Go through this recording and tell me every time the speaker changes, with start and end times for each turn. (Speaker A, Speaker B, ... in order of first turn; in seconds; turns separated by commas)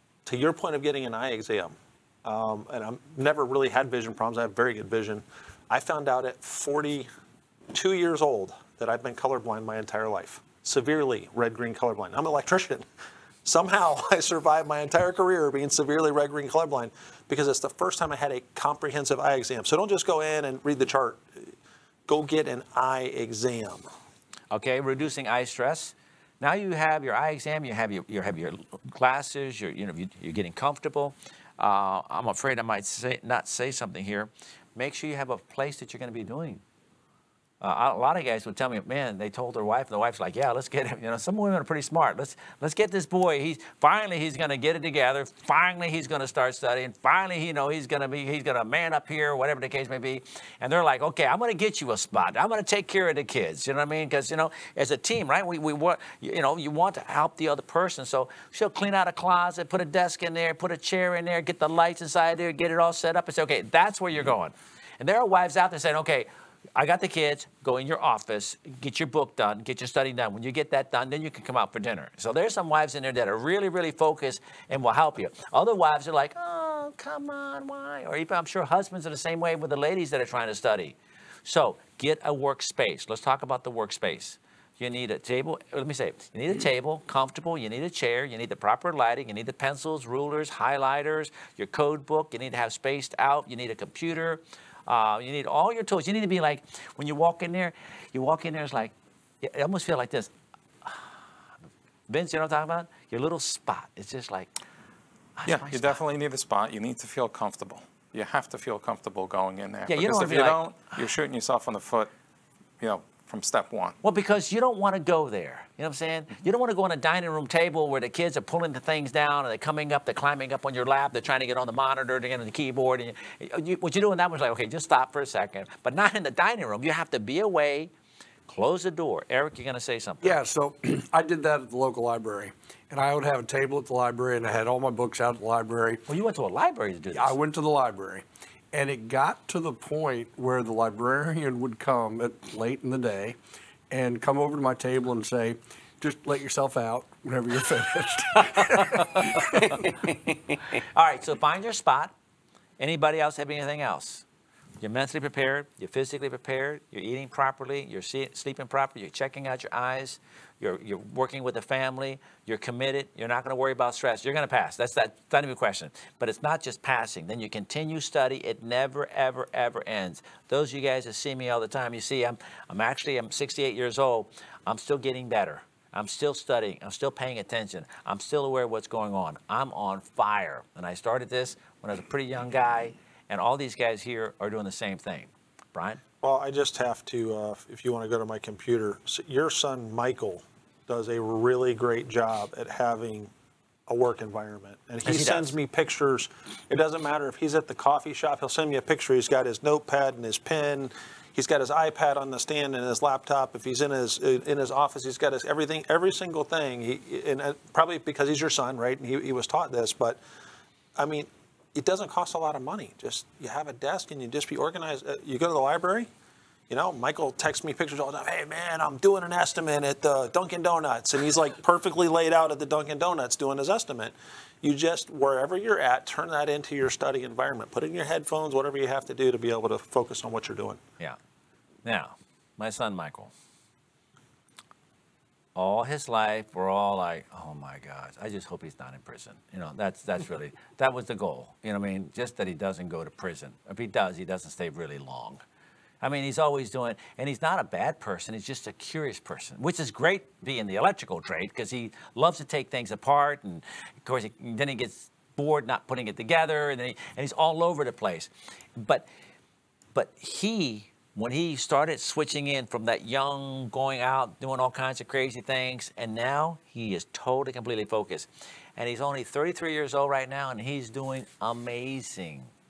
Speaker A: 0.2-7.1, Speaker A: 7.7-12.8, Speaker A: 13.4-21.4, Speaker A: 22.1-23.8, Speaker B: 24.5-36.6, Speaker B: 37.6-100.3, Speaker B: 102.1-104.5, Speaker B: 105.4-106.0, Speaker C: 105.5-112.1, Speaker B: 109.9-111.1, Speaker C: 112.8-114.0, Speaker B: 114.0-127.9, Speaker B: 128.5-130.4, Speaker D: 130.2-136.1, Speaker B: 136.1-137.4, Speaker D: 137.1-143.4, Speaker D: 143.9-149.8, Speaker B: 148.6-149.8, Speaker B: 150.9-152.1, Speaker B: 152.8-154.2, Speaker B: 154.8-186.0, Speaker A: 186.2-193.3, Speaker A: 193.9-210.2, Speaker B: 195.0-195.6, Speaker A: 211.0-216.1, Speaker A: 216.7-230.8, Speaker B: 231.8-233.3, Speaker B: 235.6-245.4, Speaker B: 246.0-259.1, Speaker B: 259.9-272.5